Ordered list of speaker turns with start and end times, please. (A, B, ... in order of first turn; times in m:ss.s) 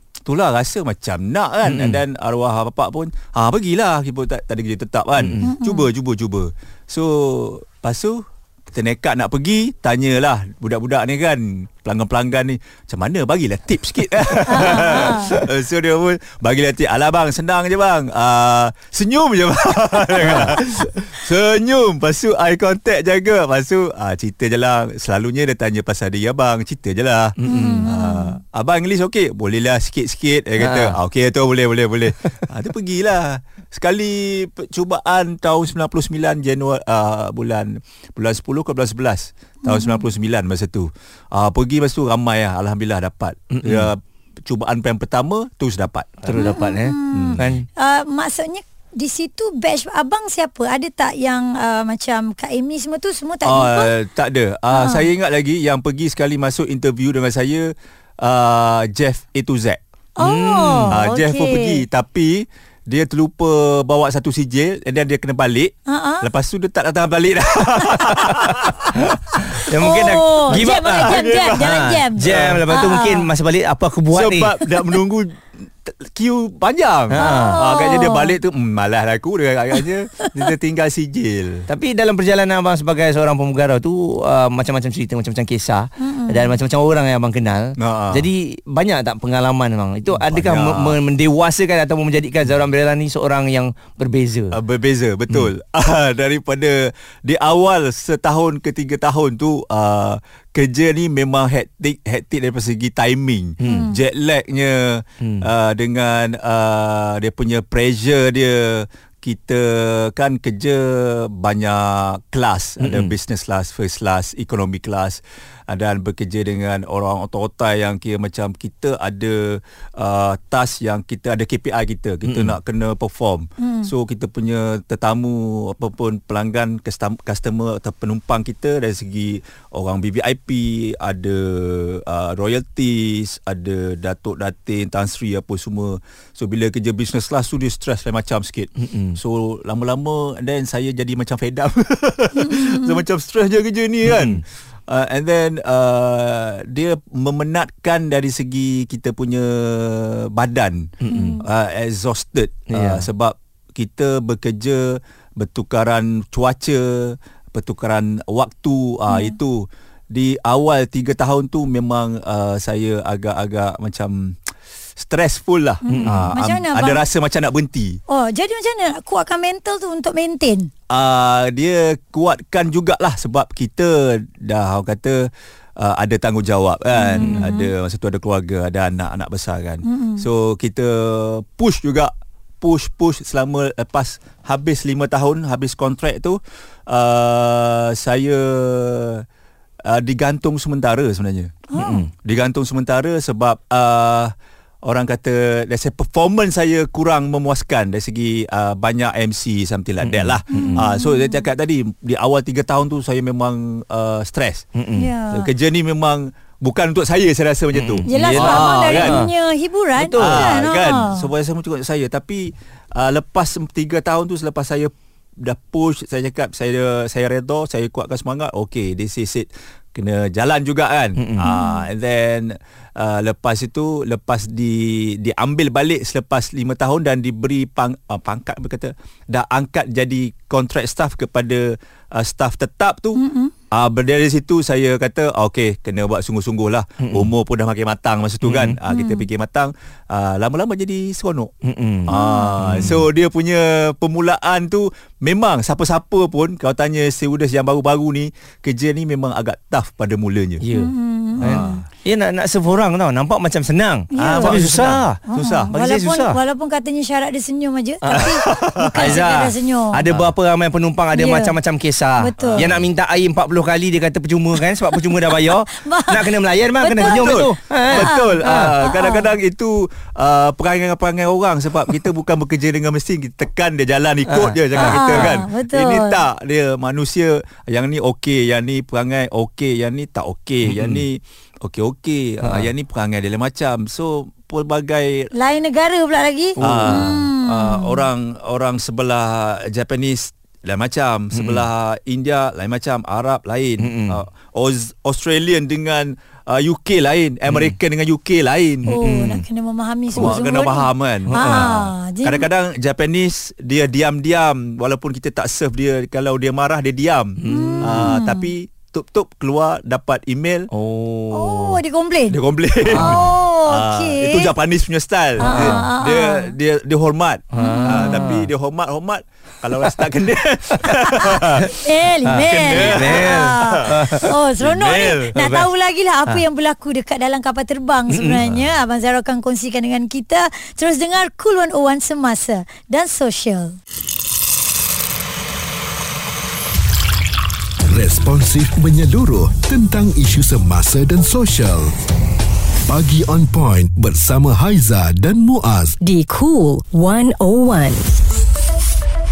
0:00.3-0:46.6 A
0:01.6-0:02.0 B
0:05.2-0:05.5 B
0:05.4-0:05.9 C
0:14.5-0:15.3 C
0:20.2-0:20.5 B
0:27.4-0:27.9 B
0:27.5-0:28.4 C
0:30.6-0:31.0 B
0:39.6-0:40.1 C
0:43.5-0:43.9 B
0:46.2-0:47.6 B
0:46.4-0:53.9 C
0:47.1-0:47.4 A
0:53.4-0:59.8 A
0:54.7-0:55.0 C
1:00.2-1:01.8 C
1:00.2-1:00.9 B
1:00.9-1:09.0 A
1:05.9-1:06.3 C
1:09.0-1:14.6 B
1:09.3-1:13.3 C
1:10.5-1:12.7 A
1:14.1-1:21.7 A
1:17.1-1:17.6 B
1:17.2-1:18.4 C
1:20.2-1:20.5 C
1:21.7-1:34.6 B
1:26.0-1:26.6 C
1:27.8-1:28.3 A
1:30.1-1:31.0 A
1:34.5-2:44.4 A
1:43.6-1:43.9 B
1:43.6-1:44.0 C
1:45.2-1:45.5 B
1:52.8-1:53.1 B
2:02.2-2:02.6 B
2:03.6-2:03.9 C
2:18.8-2:19.2 B
2:22.4-2:23.0 C
2:24.0-2:24.4 B
2:31.0-2:31.4 B
2:31.1-2:31.4 C
2:32.7-2:33.1 B
2:39.1-2:39.4 C
2:45.0-2:48.0 A
2:45.8-2:47.0 C
2:45.9-2:46.3 B
2:48.1-2:50.7 C
2:50.9-3:09.2 A
2:57.0-2:57.7 C
2:59.8-3:00.3 C
3:09.8-3:14.3 A
3:11.7-3:12.1 C
3:11.8-3:12.1 B
3:14.8-3:24.7 A
3:20.0-3:20.8 B
3:20.5-3:21.5 C
3:24.8-3:25.1 B
3:25.0-3:25.5 C
3:25.3-3:29.2 A
3:27.7-3:29.3 B
3:28.1-3:31.3 C
3:30.0-3:30.6 B
3:30.2-4:01.5 A
3:41.2-3:41.5 B
3:41.4-3:41.9 C
3:53.2-3:53.5 C
3:57.0-3:57.3 B
3:58.4-3:58.8 B
3:58.9-3:59.3 C
4:01.6-4:03.1 B
4:02.1-4:10.6 A
4:02.1-4:02.6 C
4:10.6-4:16.4 B
4:10.7-4:11.8 C
4:11.4-4:11.8 A
4:14.1-4:14.6 C
4:14.2-4:15.7 A
4:15.3-4:20.0 C
4:18.1-4:28.7 B
4:18.1-4:19.5 A
4:21.1-4:21.5 C
4:22.2-4:22.7 C
4:22.4-4:22.8 A
4:24.9-4:29.3 C
4:27.0-4:45.3 A
4:34.3-4:35.4 B
4:34.8-4:36.2 C
4:40.6-4:41.0 B
4:42.4-4:42.7 B
4:45.3-4:48.1 C
4:46.6-4:47.2 B
4:46.6-4:59.0 A
4:51.3-4:51.7 B
4:53.8-4:54.2 B
4:57.5-4:57.8 B
4:58.9-5:02.5 C
4:58.9-4:59.4 B
5:00.2-5:10.7 A
5:01.3-5:01.7 B
5:07.4-5:08.2 B
5:07.5-5:08.5 C
5:10.7-5:11.8 B
5:11.3-5:12.4 C
5:12.3-5:21.7 A
5:12.9-5:13.3 B
5:12.9-5:14.5 C
5:15.4-5:16.5 C
5:15.4-5:15.8 B
5:17.5-5:18.5 B
5:17.6-5:18.2 C
5:20.9-5:33.8 C
5:22.3-5:24.3 B
5:22.3-5:25.3 A
5:25.3-5:25.7 B
5:28.1-5:28.4 B
5:28.4-5:28.7 A
5:37.9-5:41.9 D
5:42.9-5:46.0 D
5:46.0-5:48.1 E